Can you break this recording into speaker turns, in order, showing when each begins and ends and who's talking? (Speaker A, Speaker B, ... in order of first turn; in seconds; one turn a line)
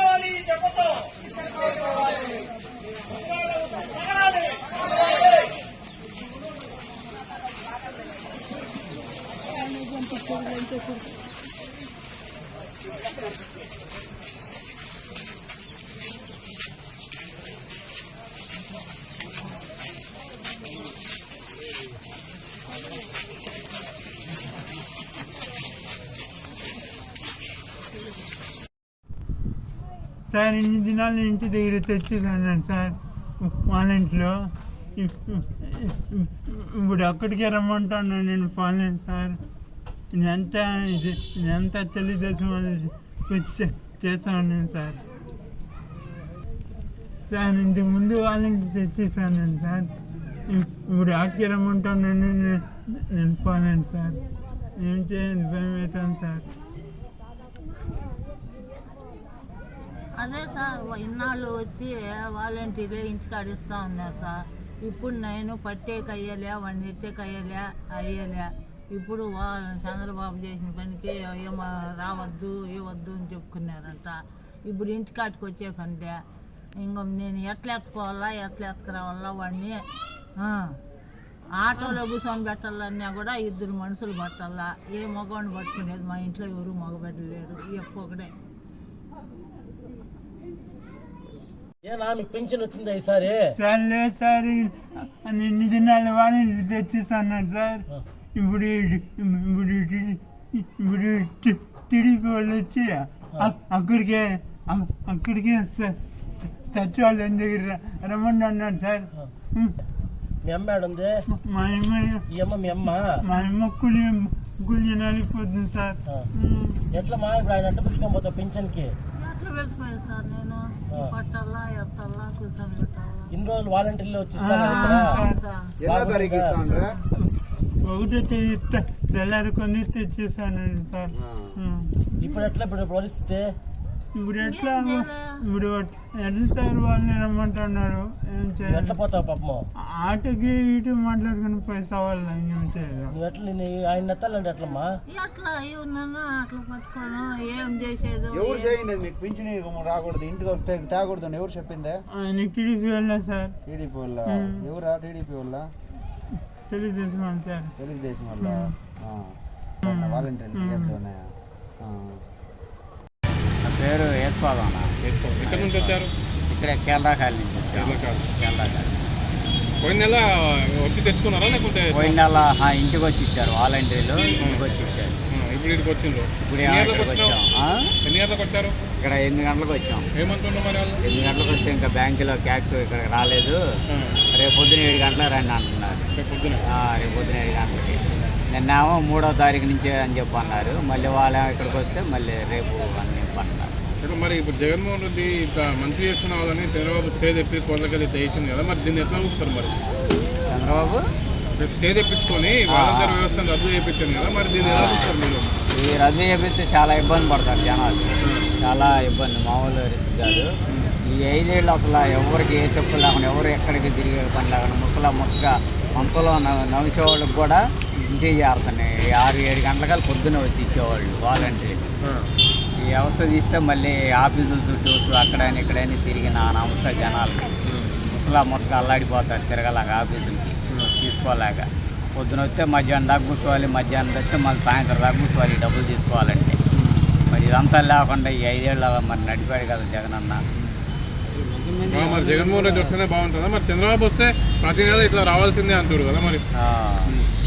Speaker A: 30.3-39.4
Speaker A: 40.1-45.0
Speaker A: 47.3-49.9
Speaker A: 50.5-54.2
Speaker A: 54.8-56.5
Speaker B: 60.1-76.2
Speaker B: 76.8-80.8
Speaker B: 81.6-88.3
Speaker C: 91.8-93.5
Speaker A: 93.6-106.0
Speaker A: 106.7-109.8
Speaker C: 110.4-111.1
Speaker A: 111.3-112.2
Speaker C: 112.3-113.2
Speaker A: 113.2-116.9
Speaker C: 116.9-118.9
Speaker B: 119.2-123.3
Speaker C: 120.9-121.1
Speaker C: 123.3-125.2
Speaker A: 124.3-125.4
Speaker B: 124.7-125.7
Speaker D: 125.8-127.0
Speaker C: 125.8-126.7
Speaker A: 127.8-131.9
Speaker D: 131.1-131.6
Speaker C: 132.2-133.4
Speaker A: 134.1-139.0
Speaker B: 134.5-135.3
Speaker C: 138.6-139.6
Speaker A: 140.0-143.2
Speaker C: 143.1-144.9
Speaker B: 145.1-148.7
Speaker D: 148.3-152.0
Speaker A: 152.1-153.6
Speaker D: 153.7-155.7
Speaker A: 154.3-154.7
Speaker A: 156.7-157.7
Speaker D: 157.8-159.3
Speaker A: 158.4-158.7
Speaker D: 159.8-161.2
Speaker A: 159.8-161.0
Speaker D: 161.8-162.2
Speaker E: 163.6-166.0
Speaker F: 165.0-166.1
Speaker E: 166.5-169.0
Speaker F: 167.7-168.3
Speaker F: 169.8-172.4
Speaker E: 171.9-175.2
Speaker F: 175.3-177.4
Speaker E: 176.5-177.9
Speaker F: 178.0-178.8
Speaker E: 179.0-180.1
Speaker F: 180.2-181.0
Speaker E: 181.0-183.6
Speaker F: 183.9-184.2
Speaker E: 184.3-186.1
Speaker F: 186.2-186.6
Speaker E: 186.7-193.8
Speaker F: 194.0-199.8
Speaker E: 200.5-201.0
Speaker F: 201.6-205.5
Speaker E: 202.7-203.2
Speaker E: 204.6-205.1
Speaker E: 205.7-210.5
Speaker F: 210.7-210.9
Speaker E: 211.1-221.8
Speaker E: 222.8-227.5
Speaker F: 227.7-228.1
Speaker E: 228.1-236.6
Speaker F: 230.7-230.9
Speaker F: 236.8-237.1
Speaker E: 237.3-240.4
Speaker D: 241.3-242.7
Speaker F: 241.8-246.4
Speaker E: 246.5-247.1